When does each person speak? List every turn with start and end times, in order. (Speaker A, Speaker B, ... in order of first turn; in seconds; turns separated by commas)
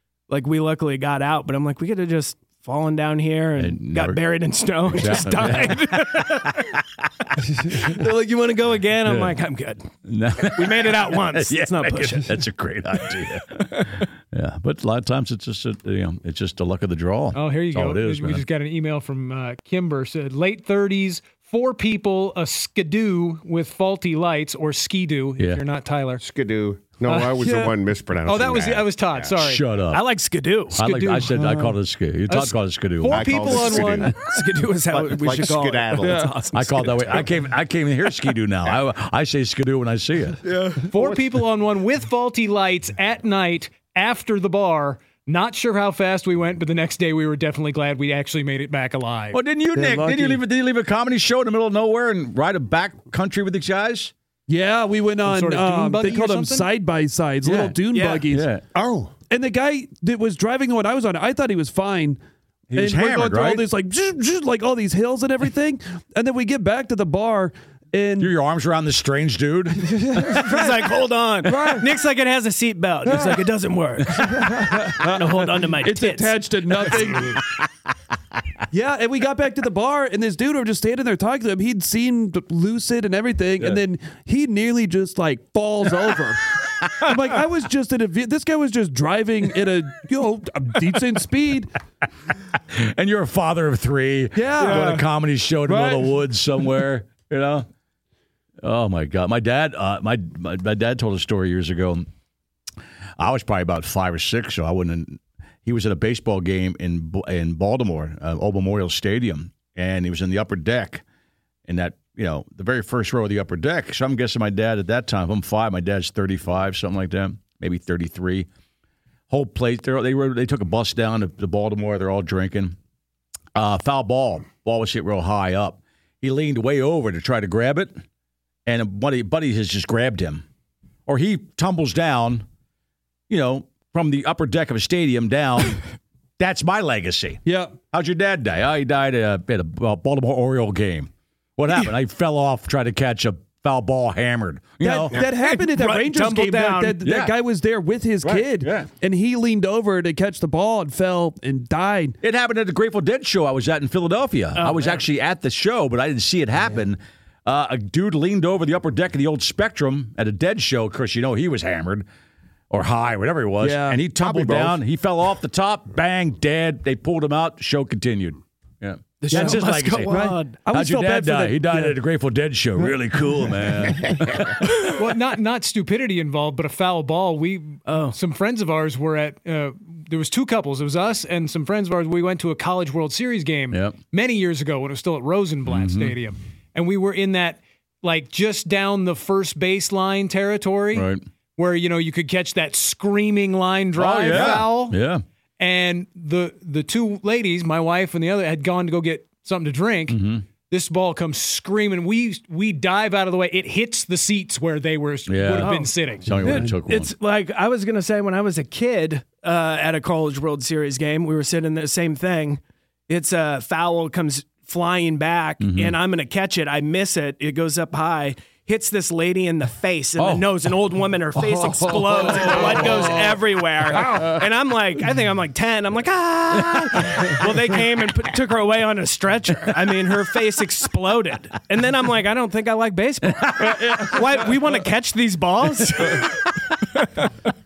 Speaker A: 0.3-6.8, Speaker B: 3.5-4.2, Speaker B: 4.8-6.4, Speaker A: 7.6-9.9, Speaker B: 9.0-9.4, Speaker B: 10.0-18.4, Speaker A: 10.4-12.4, Speaker C: 17.3-26.2, Speaker B: 25.4-25.6, Speaker D: 26.2-29.3, Speaker C: 27.1-27.6, Speaker C: 28.2-29.6, Speaker B: 29.4-30.0, Speaker A: 29.9-30.8, Speaker B: 30.7-34.0, Speaker C: 30.8-31.4, Speaker E: 31.3-31.7, Speaker C: 32.3-34.2, Speaker D: 33.0-34.1, Speaker A: 34.2-37.3, Speaker D: 34.9-37.2, Speaker E: 36.0-36.3, Speaker B: 36.5-40.4, Speaker A: 40.5-40.8, Speaker D: 40.8-41.3, Speaker C: 40.9-49.4, Speaker B: 49.3-54.1, Speaker E: 49.7-50.4, Speaker E: 54.5-58.5, Speaker C: 55.2-56.7, Speaker B: 57.4-58.6, Speaker A: 57.9-58.3, Speaker D: 58.7-59.1, Speaker E: 59.3-62.2, Speaker B: 62.7-63.6, Speaker E: 62.7-68.3, Speaker B: 68.2-70.0, Speaker E: 69.8-70.9, Speaker A: 70.3-76.3, Speaker E: 71.4-71.9, Speaker E: 73.0-73.5, Speaker E: 74.1-77.4, Speaker E: 78.7-86.4, Speaker E: 87.0-91.7, Speaker B: 92.7-97.7, Speaker E: 94.3-94.9, Speaker A: 94.6-95.0, Speaker E: 95.7-96.2, Speaker B: 98.6-102.0, Speaker B: 103.2-111.0, Speaker B: 111.7-118.5, Speaker B: 119.3-122.8, Speaker B: 123.5-127.9, Speaker B: 128.7-130.4, Speaker B: 131.1-132.4, Speaker B: 133.3-135.8, Speaker B: 136.4-145.2, Speaker E: 137.4-137.8, Speaker E: 144.8-152.2, Speaker A: 145.2-147.0, Speaker B: 147.0-147.3, Speaker B: 148.2-148.9, Speaker B: 152.2-162.0, Speaker A: 154.6-155.0, Speaker B: 162.7-174.7, Speaker E: 163.6-164.0, Speaker D: 164.2-164.8, Speaker A: 169.2-170.6, Speaker E: 169.3-171.9, Speaker C: 174.9-195.0, Speaker A: 177.9-178.2, Speaker B: 183.7-184.0, Speaker B: 185.7-186.1, Speaker B: 190.9-191.2, Speaker B: 193.9-195.2, Speaker C: 195.6-206.3, Speaker B: 200.1-200.4, Speaker B: 205.2-207.1, Speaker A: 205.6-237.4, Speaker E: 206.4-206.7, Speaker B: 215.6-215.9, Speaker B: 220.2-220.7, Speaker E: 222.0-223.1, Speaker B: 222.5-223.1, Speaker B: 233.3-234.4, Speaker E: 233.7-234.2